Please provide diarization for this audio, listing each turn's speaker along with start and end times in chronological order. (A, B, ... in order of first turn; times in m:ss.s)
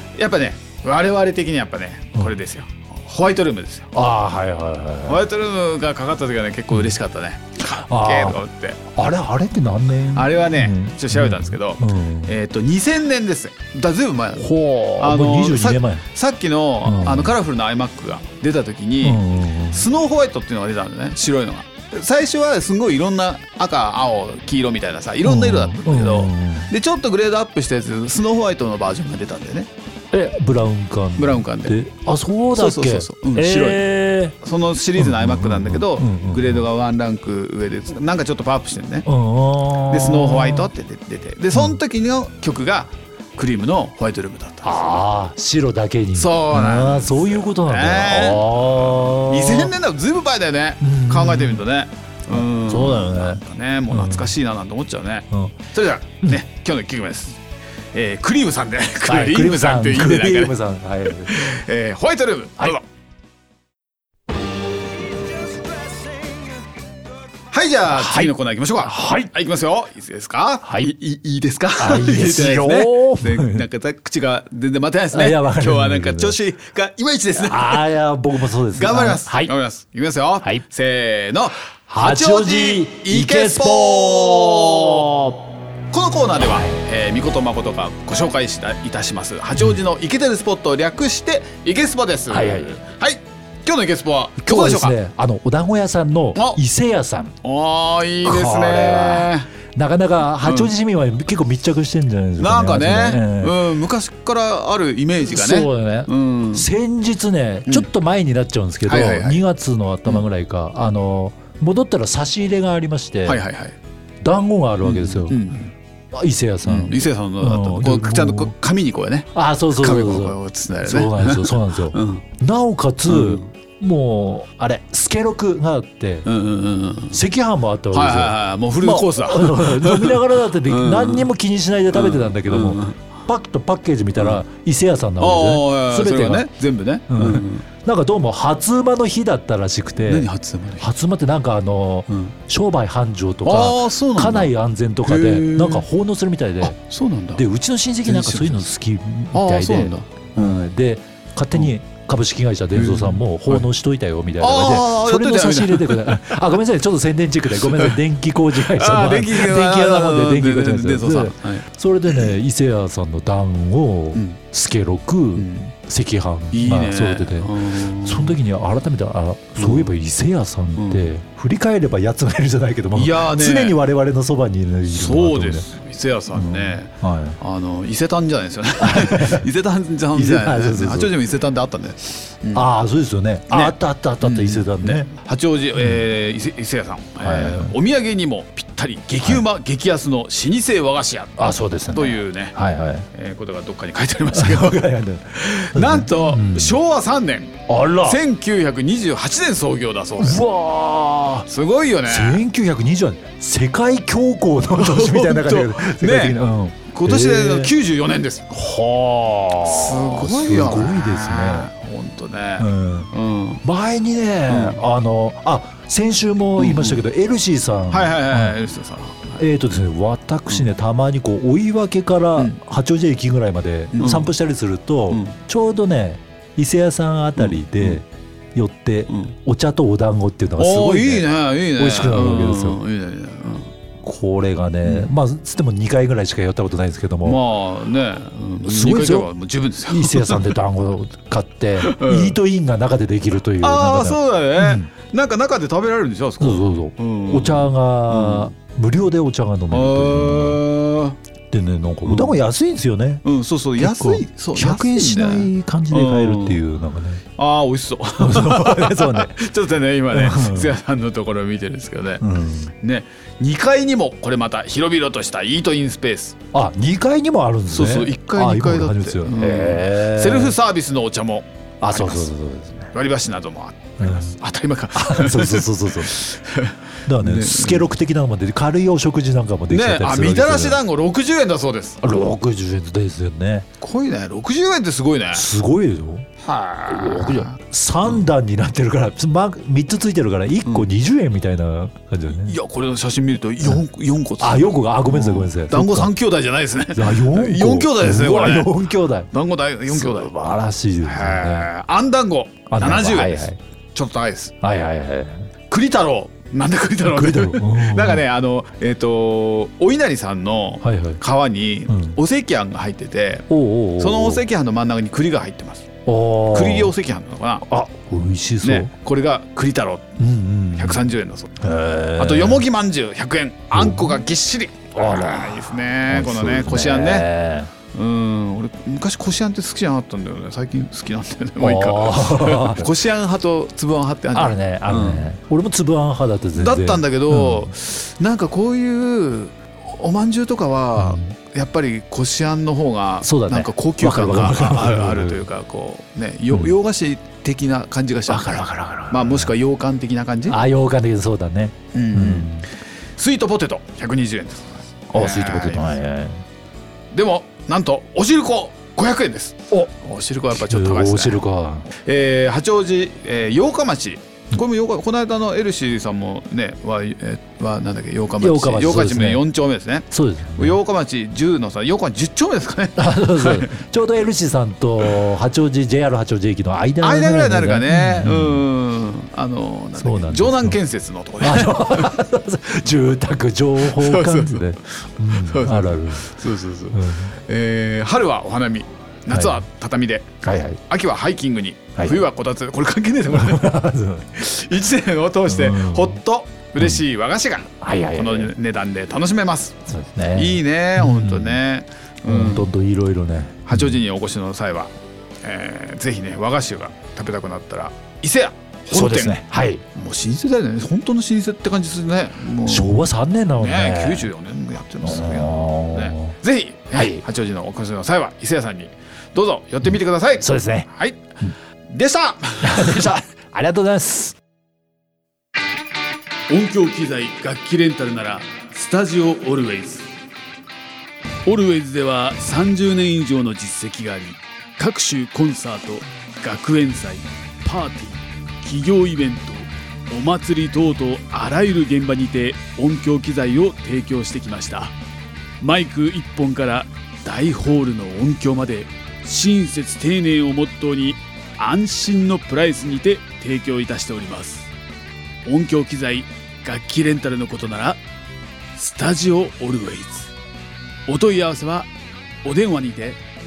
0:00.2-0:04.0 A
0:03.9-0:05.3 B
0:05.1-0:08.8 A
0:06.7-0:07.0 B
0:07.6-0:08.4 B
0:08.9-0:12.3 B
0:10.1-0:14.5 A
0:14.4-0:16.0 B
0:15.0-0:29.7 A
0:16.8-0:17.3 B
0:19.0-0:19.9 B
0:25.2-0:26.7 B
0:30.1-0:34.4 B
0:31.2-0:31.8 A
0:32.5-0:33.8 A
0:34.4-0:39.1 A
0:35.0-0:36.7 B
0:39.1-0:40.7 B
0:39.9-0:44.8 A
0:44.6-0:49.7 B
0:46.2-0:57.4 A
0:50.8-0:51.6 B
0:52.3-0:54.4 B
0:57.9-1:02.8 A
0:59.0-1:01.5 B
1:07.5-1:17.9 A
1:07.9-1:09.3 B
1:10.6-1:10.9 B
1:11.8-1:13.6 B
1:15.1-1:16.4 B
1:17.4-1:19.5 B
1:18.7-1:25.1 A
1:21.9-1:25.4 B
1:25.9-1:35.0 A
1:26.4-1:26.8 B
1:32.3-1:32.8 B
1:34.4-1:37.4 B
1:37.4-1:39.5 A
1:38.2-1:43.6 B
1:40.4-1:40.7 A
1:42.4-1:46.7 A
1:45.3-1:53.4 B
1:48.8-1:49.4 A
1:53.3-1:53.8 A
1:54.2-1:55.5 B
1:54.8-1:55.7 A
1:56.1-1:58.5 B
1:56.6-2:02.2 A
1:59.3-2:06.3 B
2:03.1-2:03.5 A
2:06.3-2:07.2 A
2:07.1-2:16.5 B
2:07.9-2:11.3 A
2:11.9-2:13.1 A
2:14.2-2:14.4 A
2:15.2-2:17.7 A
2:17.1-2:20.3 B
2:20.1-2:20.9 A
2:20.8-2:26.8 B
2:22.1-2:22.4 A
2:23.4-2:24.5 A
2:25.0-2:25.9 A
2:26.6-2:27.4 A
2:27.4-2:55.7 B
2:28.1-2:28.7 A
2:29.3-2:30.7 A
2:32.7-2:33.7 A
2:34.4-2:36.3 A
2:37.6-2:38.0 A
2:38.6-2:42.3 A
2:45.4-2:45.7 A
2:46.5-2:48.4 A
2:49.6-2:49.9 A
2:50.8-2:51.1 A
2:52.9-2:53.8 A
2:54.9-3:02.7 A
2:56.3-2:57.4 B
2:58.8-2:59.5 B
3:00.1-3:01.1 B
3:02.5-3:05.1 B
3:03.5-3:12.6 A
3:05.8-3:06.0 B
3:07.2-3:07.8 B
3:11.4-3:13.1 B
3:13.1-3:20.4 A
3:14.3-3:16.8 B
3:17.7-3:18.2 B
3:20.2-3:21.5 B
3:21.5-3:22.4 A
3:22.0-3:27.7 B
3:24.7-3:26.4 A
3:26.9-3:28.5 A
3:28.5-3:31.7 B
3:29.5-3:33.6 A
3:32.6-3:33.1 B
3:33.6-3:38.6 B
3:34.5-3:34.8 A
3:36.6-3:37.0 A
3:37.9-3:39.4 A
3:39.4-3:52.8 B
3:43.9-3:44.3 A
3:45.1-3:45.4 A
3:47.4-3:48.0 A
3:49.1-3:49.3 A
3:50.6-3:53.7 A
3:54.0-3:57.4 B
3:54.8-3:55.1 A
3:57.2-4:00.5 A
3:58.6-3:59.3 B
3:59.9-4:04.9 B
4:01.8-4:02.4 A
4:03.6-4:08.5 A
4:06.4-4:10.6 B
4:09.7-4:11.2 A
4:11.5-4:13.2 B
4:12.0-4:12.4 A
4:13.2-4:16.6 A
4:13.8-4:17.2 B
4:17.4-4:22.2 A
4:18.2-4:19.4 B
4:20.1-4:20.8 B
4:22.2-4:22.7 B
4:22.8-4:26.4 A
4:26.5-4:30.6 B
4:27.7-4:32.3 A
4:31.8-4:32.9 B
4:32.9-4:37.9 A
4:34.0-4:34.3 B
4:34.9-4:36.2 B
4:37.1-4:40.8 B
4:39.7-4:42.0 A
4:42.0-4:43.7 B
4:43.8-4:45.5 A
4:45.3-4:46.3 B
4:46.4-4:48.2 A
4:46.9-4:52.6 B
4:52.3-4:58.8 A
4:54.4-4:56.1 B
4:56.9-4:59.3 B
4:59.3-5:00.3 A
4:59.9-5:01.7 B
5:01.0-5:04.5 A
5:02.7-5:03.6 B
5:04.6-5:05.5 B
5:05.7-5:15.9 A
5:07.1-5:08.2 B
5:10.8-5:11.2 B
5:11.9-5:12.2 B
5:13.5-5:14.4 B
5:16.1-5:16.9 B
5:16.5-5:17.7 A
5:17.7-5:18.9 B
5:18.6-5:20.2 A
5:20.2-5:21.0 B
5:20.8-5:21.6 A
5:21.6-5:22.6 B
5:22.2-5:27.3 A
5:23.7-5:24.2 B
5:25.0-5:27.7 B
5:27.9-5:35.3 A
5:31.6-5:32.9 B
5:34.3-5:37.7 B
5:36.6-5:50.6 A
5:41.0-5:41.2 B
5:43.2-5:45.4 B
5:48.3-5:49.5 B
5:50.5-5:52.7 B
5:51.9-5:52.6 A
5:53.2-5:56.0 A
5:55.1-5:56.4 B
5:57.1-6:13.8 A
6:00.5-6:01.9 B
6:08.4-6:09.4 B
6:10.1-6:10.8 B
6:13.0-6:18.7 B
6:17.0-6:22.2 A
6:20.0-6:20.8 B
6:21.4-6:27.3 B
6:23.8-6:24.7 A
6:25.3-6:33.8 A
6:29.3-6:29.6 B
6:30.4-6:30.8 B
6:32.0-6:32.2 B
6:33.3-6:34.4 B
6:34.4-6:39.8 A
6:35.5-6:36.2 B
6:37.8-6:38.5 B
6:39.9-6:41.6 B
6:40.3-6:42.7 A
6:42.3-6:44.0 B
6:43.7-7:01.3 A
6:48.9-6:49.8 B
6:52.7-6:54.3 B
6:55.0-6:56.4 B
6:57.0-6:57.2 B
6:59.8-7:00.9 B
7:01.9-7:03.1 A
7:02.6-7:04.4 B
7:06.5-7:10.1 A
7:11.5-7:24.9 A
7:25.6-7:34.7 A
7:35.4-7:38.0 A
7:38.8-7:40.3 A
7:41.1-7:41.9 A
7:42.4-7:43.2 A